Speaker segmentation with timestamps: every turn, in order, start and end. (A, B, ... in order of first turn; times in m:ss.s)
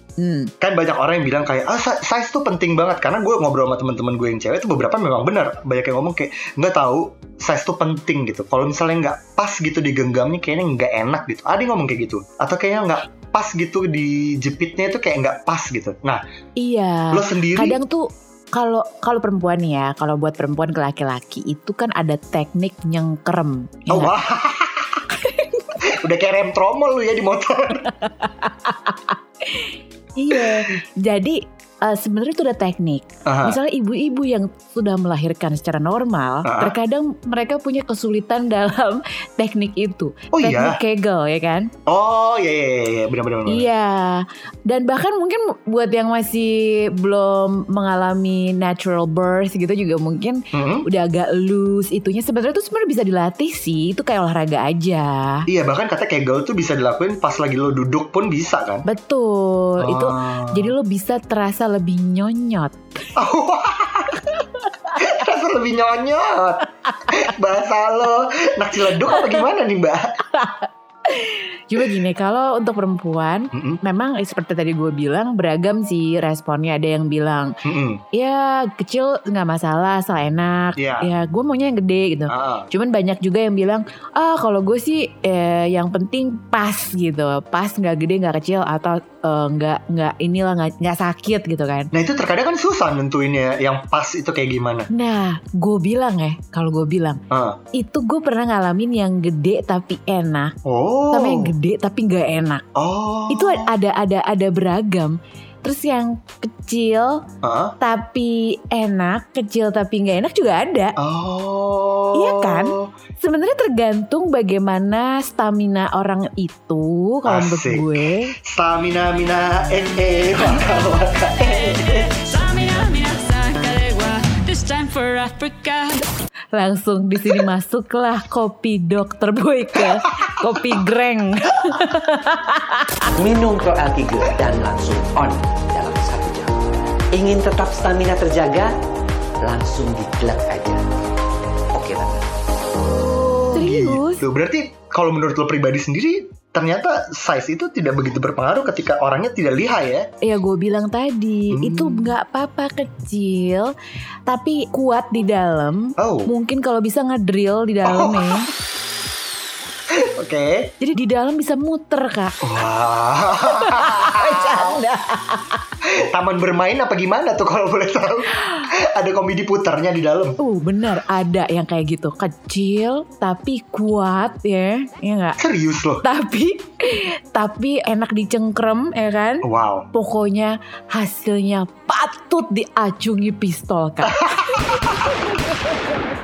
0:00.2-0:00.5 A
0:00.6-0:16.2 B
0:16.6-0:24.1 A
0:17.1-0:17.8 B
0:23.9-0:25.0 B
0:25.1-0:25.8 A
0:25.8-0:27.9 B
0:28.1-0:41.7 A
0:30.3-0:30.6 B
0:33.3-0:33.6 B
0:36.4-0:36.8 B
0:40.3-0:40.8 B
0:41.9-0:43.7 B
0:43.5-0:55.5 A
0:50.5-0:50.9 B
0:55.5-0:58.9 B
0:58.9-1:02.8 A
0:59.8-1:00.7 B
1:03.2-1:04.4 B
1:05.0-1:10.2 B
1:10.3-1:17.6 A
1:13.5-1:13.8 B
1:17.6-1:18.0 B
1:18.1-1:31.9 A
1:20.8-1:21.1 B
1:22.3-1:22.7 B
1:31.9-1:34.9 B
1:34.9-1:37.2 A
1:37.3-1:37.6 B
1:37.7-1:40.6 A
1:40.6-1:41.5 B
1:41.1-1:42.6 A
1:42.8-1:43.7 B
1:43.3-1:47.2 A
1:47.4-1:47.8 B
1:47.8-1:51.0 A
1:51.0-1:52.9 B
1:52.1-1:58.4 A
1:57.2-2:02.1 B
2:01.6-2:06.0 C
2:06.5-2:13.1 A
2:13.2-2:18.7 D
2:19.4-2:20.8 D
2:21.7-2:22.3 D
2:23.0-2:30.1 B
2:23.5-2:24.2 A
2:30.2-2:33.7 A
2:31.5-2:32.2 B
2:34.3-2:38.5 A
2:36.0-2:36.3 B
2:37.8-2:38.5 B
2:39.9-2:40.7 B
2:40.8-2:42.4 A
2:42.4-2:44.8 B
2:43.5-2:45.6 A
2:45.8-2:50.4 B
2:50.4-2:55.4 A
2:55.4-2:56.0 B
2:56.0-3:04.6 A
2:59.4-2:59.9 B
3:04.2-3:04.9 B